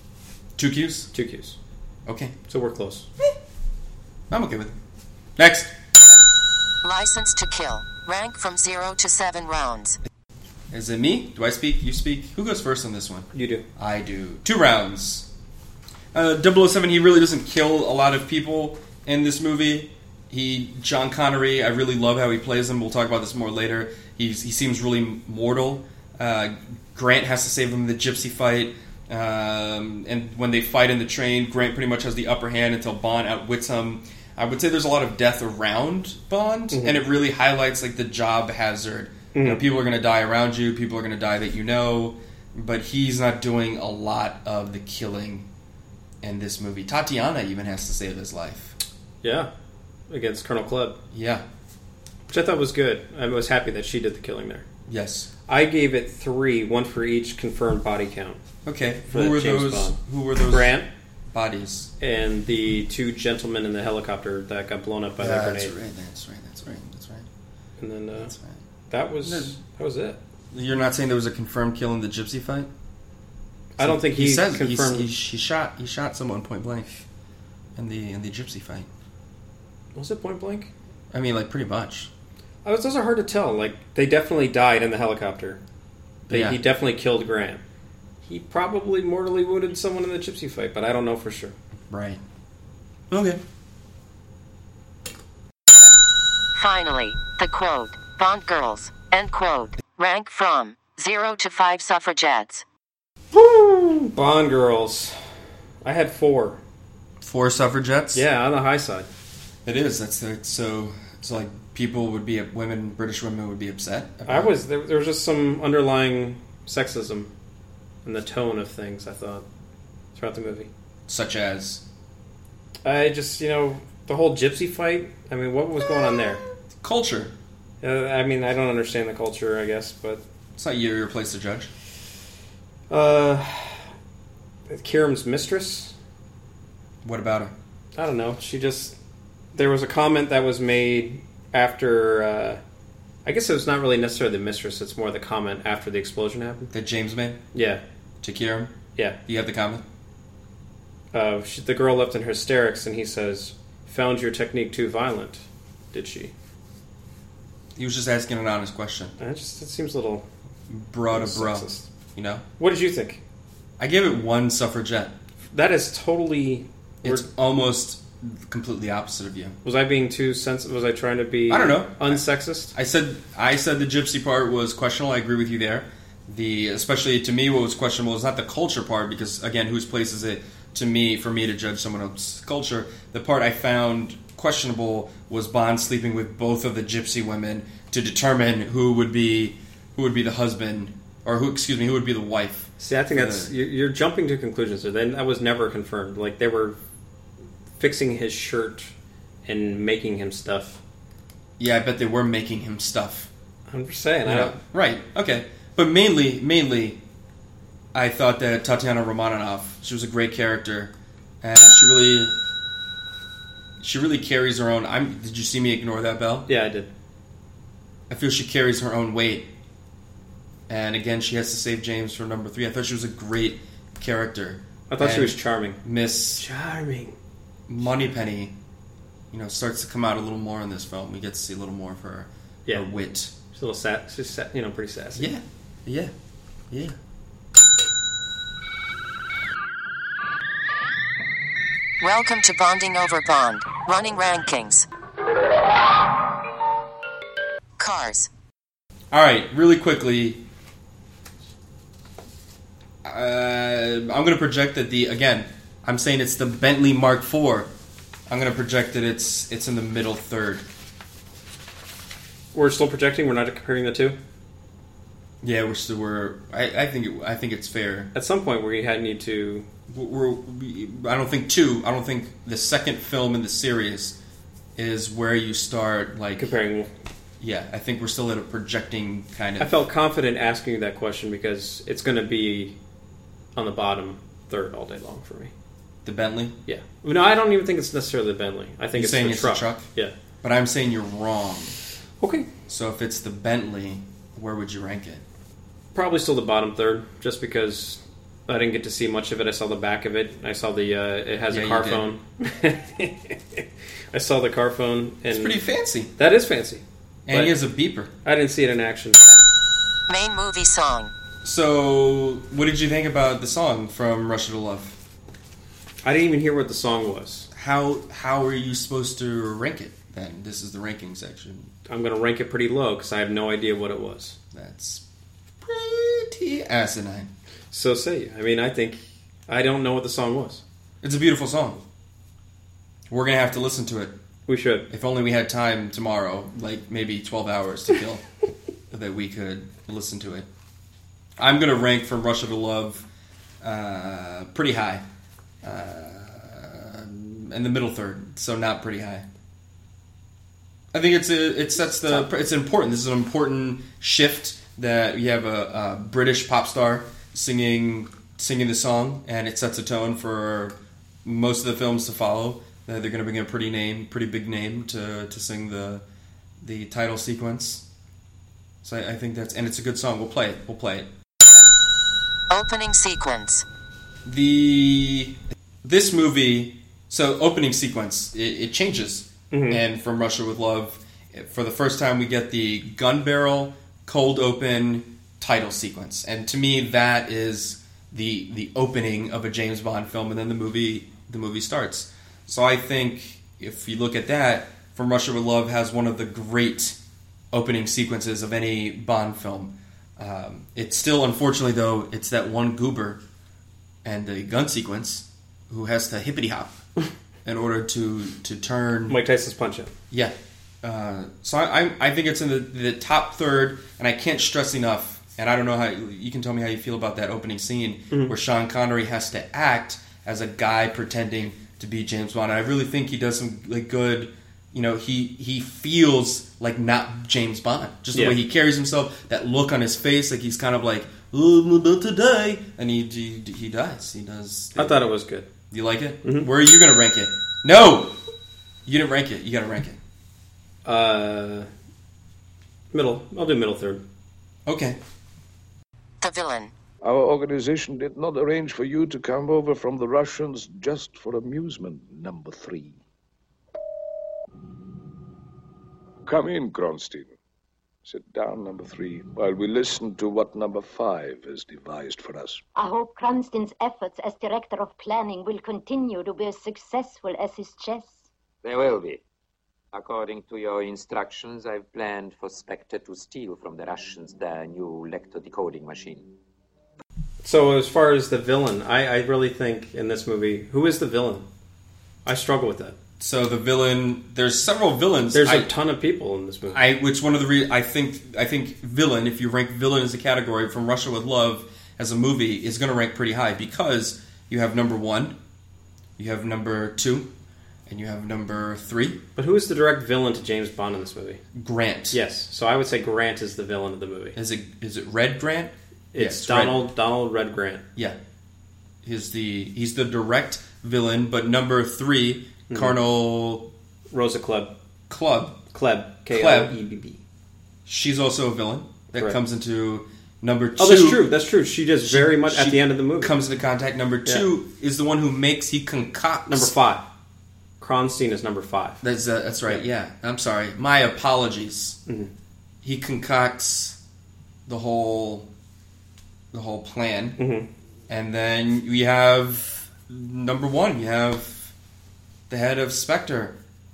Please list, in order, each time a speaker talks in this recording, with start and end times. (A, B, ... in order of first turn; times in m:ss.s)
0:00.6-0:01.1 A
0:01.1-0:01.6 B
0:02.1-0:02.3 A
0:02.5-0:03.1 B
0:04.3-0:04.8 A
0:05.4-0:05.7 A
0:06.8-0:10.0 C
0:10.7-0:15.3 A
0:13.3-0:13.6 B
0:16.1-0:45.5 A
0:36.7-0:37.0 B
0:39.3-0:39.6 B
0:46.2-0:48.8 A
0:49.2-0:49.5 B
0:50.1-0:51.0 B
0:51.1-0:51.4 A
0:52.3-0:54.6 B
0:54.9-0:55.3 A
0:55.5-0:58.4 B
0:58.6-1:00.8 A
0:59.1-1:00.9 B
1:01.3-1:01.9 A
1:02.0-1:05.7 B
1:05.2-1:07.2 A
1:07.8-1:08.3 B
1:08.2-1:08.6 A
1:08.9-1:10.2 B
1:09.2-1:09.5 A
1:10.5-1:12.7 A
1:13.8-1:15.1 B
1:13.8-1:17.0 A
1:17.8-1:18.9 A
1:19.9-1:20.7 B
1:21.1-1:22.1 A
1:22.6-1:25.6 B
1:26.3-1:26.6 A
1:26.3-1:27.6 B
1:28.2-1:31.5 B
1:31.9-1:32.2 A
1:33.1-1:33.4 A
1:36.5-1:42.6 C
1:43.3-1:45.2 B
1:45.8-1:46.6 B
1:47.2-1:48.2 A
1:48.1-1:49.1 B
1:49.6-1:54.5 A
1:54.3-1:57.3 B
1:58.0-1:59.4 B
2:00.1-2:00.7 B
2:01.1-2:01.8 A
2:02.8-2:06.4 B
2:06.8-2:07.3 A
2:07.8-2:10.2 B
2:10.6-2:11.7 A
2:12.9-2:13.9 B
2:14.7-2:15.9 B
2:17.0-2:17.5 A
2:17.9-2:19.0 B
2:19.5-2:22.6 B
2:23.2-2:26.7 B
2:26.7-2:27.4 A
2:27.5-2:27.8 B
2:28.2-2:28.7 A
2:29.2-2:29.8 A
2:31.1-2:36.3 B
2:37.8-2:39.1 A
2:39.2-2:40.2 B
2:40.7-2:42.4 A
2:41.1-2:41.9 B
2:42.6-2:43.2 B
2:43.8-2:45.1 A
2:45.5-2:47.2 B
2:47.0-2:49.6 A
2:49.6-2:52.7 B
2:51.5-3:13.5 A
3:12.8-3:16.8 B
3:17.8-3:18.9 B
3:19.4-3:20.8 B
3:21.6-3:23.3 A
3:23.7-3:24.6 B
3:24.2-3:27.0 A
3:27.9-3:32.4 A
3:33.8-3:36.5 A
3:36.5-3:36.9 B
3:38.1-3:39.5 A
3:40.7-3:46.4 A
3:44.9-3:45.8 B
3:46.4-3:47.1 B
3:47.7-3:48.5 A
3:49.3-3:53.3 A
3:53.5-3:55.3 B
3:55.2-3:56.1 A
3:56.7-3:57.0 A
4:02.0-4:04.8 C
4:07.8-4:08.3 C
4:09.1-4:10.4 A
4:13.0-4:17.7 A
4:18.3-4:20.6 A
4:22.5-4:24.2 B
4:25.4-4:28.1 A
4:28.1-4:29.7 B
4:29.9-4:34.2 A
4:34.8-4:36.5 A
4:36.4-4:36.9 B
4:37.4-4:39.7 A
4:39.6-4:42.8 B
4:43.5-4:45.5 B
4:46.0-4:46.6 A
4:46.7-4:50.1 B
4:49.0-4:49.8 A
4:50.4-4:51.8 A
4:52.2-4:52.5 B
4:52.7-4:55.2 A
4:55.9-5:05.6 B
5:01.5-5:02.0 A
5:05.3-5:06.1 A
5:06.2-5:07.5 B
5:07.3-5:08.1 A
5:08.2-5:09.2 B
5:10.1-5:11.1 C
5:11.4-5:15.0 A
5:16.0-5:17.5 B
5:17.5-5:21.7 A
5:21.9-5:24.4 B
5:24.5-5:25.0 A
5:25.6-5:27.3 A
5:27.7-5:30.6 B
5:31.0-5:31.8 A
5:33.1-5:34.1 A
5:34.5-5:34.9 B
5:34.9-5:38.2 A
5:38.9-5:40.5 A
5:41.4-5:43.0 A
5:43.6-5:45.0 A
5:45.6-5:49.2 A
5:50.9-6:06.0 A
6:06.6-6:07.8 A
6:08.8-6:11.1 A
6:12.5-6:13.6 C
6:14.2-6:37.0 A
6:19.5-6:19.8 B
6:37.5-6:43.2 A
6:44.0-6:46.8 A
6:47.4-6:49.2 A
6:49.1-6:49.9 B
6:50.1-7:15.1 A
7:14.8-7:15.5 B
7:15.7-7:18.2 A
7:18.8-7:20.0 A
7:20.8-7:21.7 B
7:22.9-7:24.0 B
7:24.6-7:25.0 A
7:26.2-7:26.7 C
7:27.0-7:33.0 D
7:36.2-7:37.3 D
7:38.0-7:42.6 D
7:42.8-7:48.2 E
7:48.6-7:49.2 F
7:49.9-7:56.3 F
7:57.4-8:01.4 B
8:02.2-8:03.0 B
8:03.2-8:05.7 A
8:05.3-8:06.8 B
8:06.7-8:15.4 A
8:16.2-8:17.3 A
8:17.9-8:19.2 A
8:19.4-8:21.4 B
8:21.5-8:22.2 A
8:22.1-8:24.4 B
8:24.3-8:26.8 A
8:26.1-8:27.8 B
8:29.0-8:33.7 A
8:32.7-8:32.9 B
8:34.1-8:34.7 B
8:35.1-8:35.6 A
8:35.7-8:37.2 B
8:36.3-8:36.7 A
8:37.8-8:41.3 A
8:40.8-8:43.3 B
8:42.0-8:46.7 A
8:46.5-8:47.0 B
8:47.8-8:49.0 B
8:49.0-8:52.0 A
8:52.8-8:54.0 A
8:54.7-8:55.5 A
8:56.5-8:57.4 A
8:57.4-8:57.7 B
8:58.1-9:01.7 A
9:02.5-9:03.6 A